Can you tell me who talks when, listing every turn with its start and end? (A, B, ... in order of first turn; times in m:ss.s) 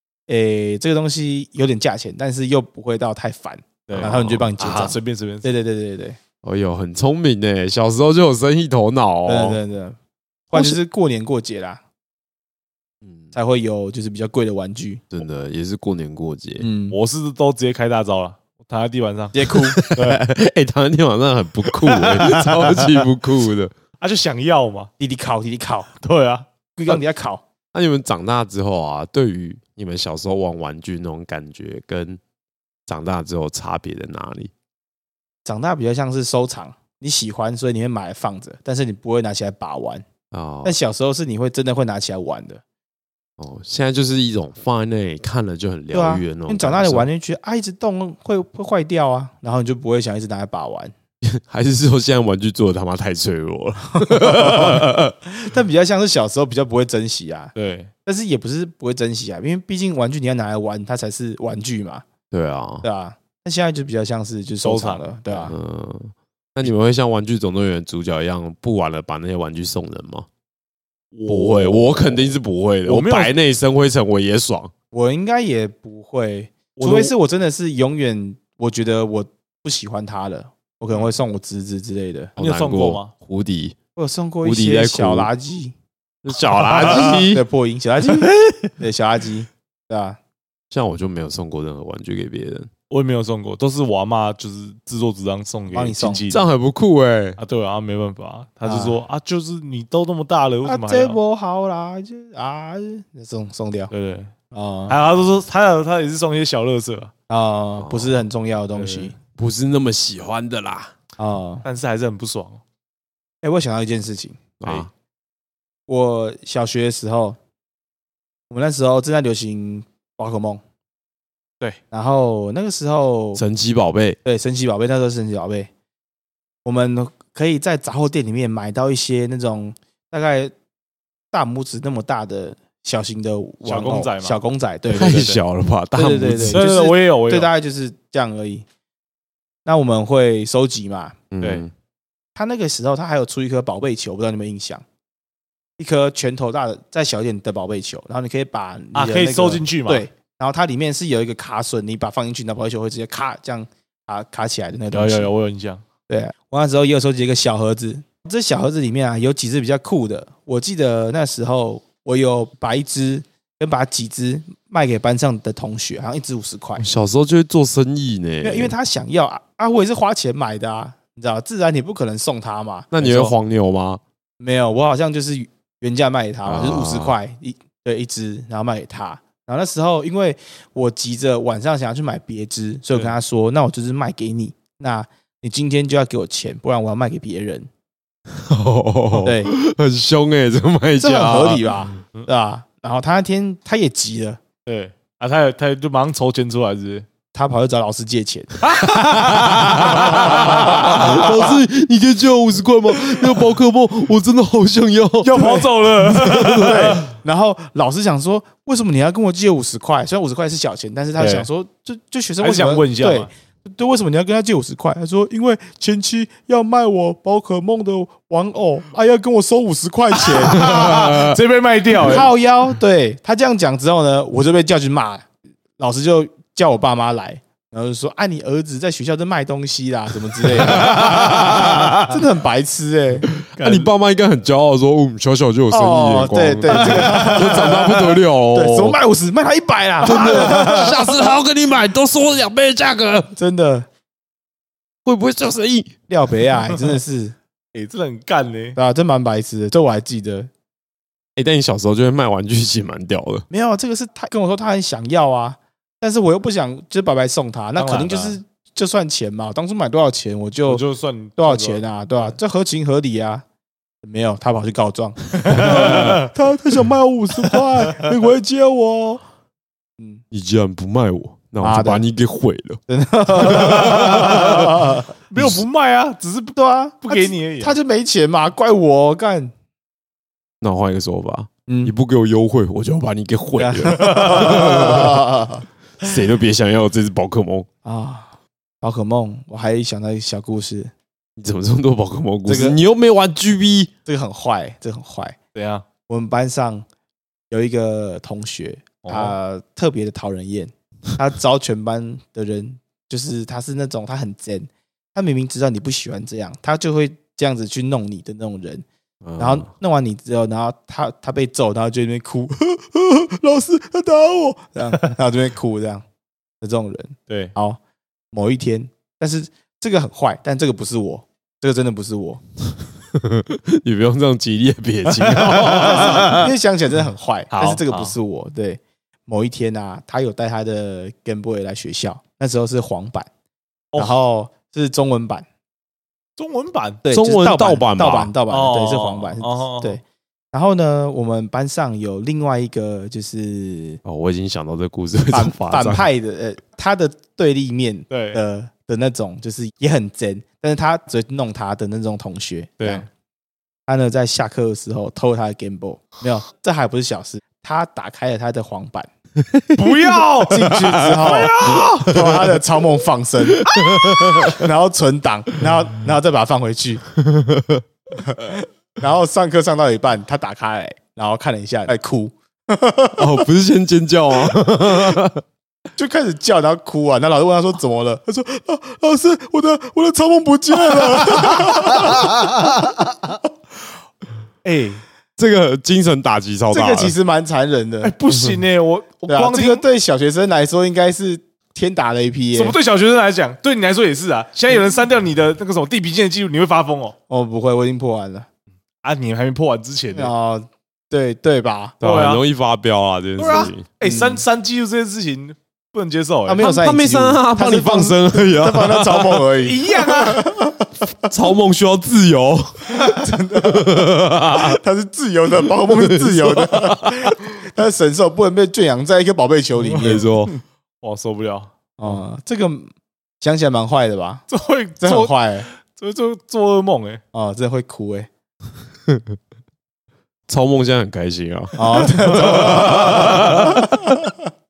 0:00.3-0:06.2 A
0:03.9-0:05.5 B
0:03.9-0:04.5 C
0:06.4-0:09.6 C
0:09.2-0:10.0 A
0:10.5-0:11.8 A
0:13.3-0:15.0 A
0:15.1-0:16.7 C
0:16.6-0:17.0 A
0:16.9-0:20.2 B
0:19.3-0:19.8 A
0:19.5-0:23.7 C
0:21.7-0:23.0 B
0:24.0-0:24.9 B
0:25.0-0:25.9 A
0:26.0-0:27.0 B
0:26.8-0:27.4 A
0:27.7-0:32.2 C
0:32.9-0:34.5 C
0:35.4-0:40.0 A
0:40.3-0:40.8 C
0:40.6-0:42.6 A
0:43.4-0:47.1 C
0:45.9-0:50.9 A
0:51.2-0:55.1 C
0:54.0-0:57.5 A
0:57.6-0:57.9 B
0:58.0-1:02.0 A
1:02.3-1:02.9 C
1:02.8-1:05.6 A
1:04.6-1:05.0 B
1:05.4-1:10.3 C
1:11.1-1:13.3 B
1:11.3-1:14.7 C
1:14.9-1:22.3 A
1:16.8-1:17.1 B
1:22.4-1:23.1 B
1:22.4-1:23.8 C
1:24.0-1:25.7 A
1:24.4-1:25.3 C
1:26.2-1:27.4 C
1:26.7-1:30.2 A
1:26.7-1:27.1 B
1:30.7-1:32.7 C
1:32.9-1:36.4 B
1:35.7-1:36.2 A
1:36.3-1:37.4 C
1:37.4-1:41.2 B
1:38.6-1:39.0 A
1:40.6-1:43.9 A
1:43.9-1:44.3 B
1:44.5-1:45.0 A
1:44.9-1:47.1 B
1:47.3-1:49.1 A
1:47.8-1:48.2 C
1:48.7-1:49.1 B
1:49.2-1:50.9 C
1:51.2-1:51.6 A
1:51.6-1:52.6 B
1:53.4-1:54.9 A
1:54.6-1:54.9 C
1:55.9-1:57.4 A
1:58.5-2:00.6 A
2:01.9-2:03.4 A
2:03.3-2:04.2 C
2:04.2-2:05.7 A
2:06.6-2:10.5 A
2:11.3-2:15.3 A
2:13.6-2:14.4 B
2:14.9-2:16.6 C
2:14.9-2:15.4 B
2:15.9-2:18.6 A
2:16.5-2:17.5 B
2:19.6-2:21.2 A
2:21.3-2:21.7 C
2:22.3-2:24.8 A
2:25.8-2:35.3 A
2:28.9-2:30.0 B
2:34.9-2:35.8 B
2:36.1-2:46.8 A
2:46.8-2:48.7 C
2:48.4-2:52.9 A
2:52.9-2:54.0 C
2:53.0-2:53.3 B
2:54.4-3:07.7 A
2:56.4-2:57.2 C
3:08.3-3:12.0 C
3:09.2-3:09.5 A
3:11.0-3:14.4 A
3:14.6-3:17.1 B
3:17.3-3:18.6 A
3:18.7-3:27.0 C
3:18.7-3:21.3 B
3:20.0-3:21.3 A
3:25.2-3:27.0 B
3:25.3-3:25.7 A
3:26.2-3:41.4 A
3:31.2-3:31.5 B
3:32.4-3:33.3 B
3:40.2-3:42.3 B
3:42.0-3:53.3 A
3:50.5-3:51.9 C
3:50.8-3:52.0 B
3:53.3-3:59.0 C
3:53.6-3:53.9 B
3:55.7-4:01.2 A
3:56.8-3:57.3 B
4:00.0-4:03.3 C
4:03.4-4:03.9 A
4:05.0-4:06.0 C
4:06.1-4:07.4 A
4:07.7-4:08.8 B
4:08.8-4:10.5 A
4:11.4-4:13.4 C
4:13.5-4:20.8 A
4:17.8-4:18.4 B
4:20.6-4:21.8 B
4:21.4-4:23.4 A
4:24.0-4:29.2 A
4:25.5-4:26.3 B
4:25.6-4:26.1 C
4:30.3-4:32.8 C
4:31.6-4:32.0 A
4:32.9-4:35.0 A
4:33.3-4:34.8 C
4:33.9-4:34.6 B
4:35.3-4:37.8 B
4:35.4-4:35.6 C
4:36.6-4:39.5 A
4:40.6-4:45.3 C
4:41.7-4:41.9 A
4:43.6-4:45.6 A
4:46.0-4:47.7 C
4:47.8-4:50.9 A
4:51.4-4:53.9 C
4:52.4-4:52.8 A
4:54.0-4:55.4 A
4:55.6-4:55.8 B
4:56.1-4:56.9 A
4:57.5-5:08.9 A
4:59.0-4:59.4 B
5:09.2-5:09.7 C
5:09.4-5:16.0 A
5:16.6-5:17.8 A
5:17.3-5:17.6 B
5:18.3-5:22.4 A
5:23.1-5:26.4 C
5:25.2-5:26.4 B
5:25.7-5:33.3 A
5:27.5-5:28.1 B
5:34.0-5:35.4 A
5:36.4-5:37.0 B
5:37.0-5:44.0 A
5:37.1-5:38.3 C
5:38.5-5:40.0 B
5:44.0-5:46.0 C
5:45.3-5:53.1 A
5:48.1-5:48.4 B
5:52.8-5:53.0 B
5:53.9-5:59.1 A
5:59.7-6:02.5 B
6:00.5-6:07.0 A
6:03.6-6:04.6 C
6:07.2-6:07.8 C
6:08.2-6:13.5 A
6:13.2-6:15.4 C
6:16.0-6:23.3 A
6:24.6-6:25.0 B
6:25.4-6:27.2 C
6:26.7-6:28.1 A
6:28.0-6:29.8 B
6:29.3-6:32.8 A
6:32.5-6:37.1 B
6:37.3-6:38.5 A
6:39.0-6:40.3 B
6:40.1-6:42.0 A
6:42.0-6:43.9 C
6:42.0-6:42.4 B
6:43.4-6:46.6 B
6:44.0-6:44.4 A
6:46.4-6:51.0 A
6:46.6-6:49.4 C
6:49.6-6:50.7 B
6:51.2-6:54.8 C
6:52.9-7:00.3 A
6:55.7-6:57.1 C
6:59.9-7:00.5 C
7:01.0-7:01.7 B
7:02.0-7:02.9 A
7:03.4-7:04.4 A
7:04.5-7:07.2 B
7:05.0-7:05.7 A
7:07.3-7:08.3 A
7:09.1-7:09.4 C
7:10.5-7:14.1 C
7:11.8-7:14.3 A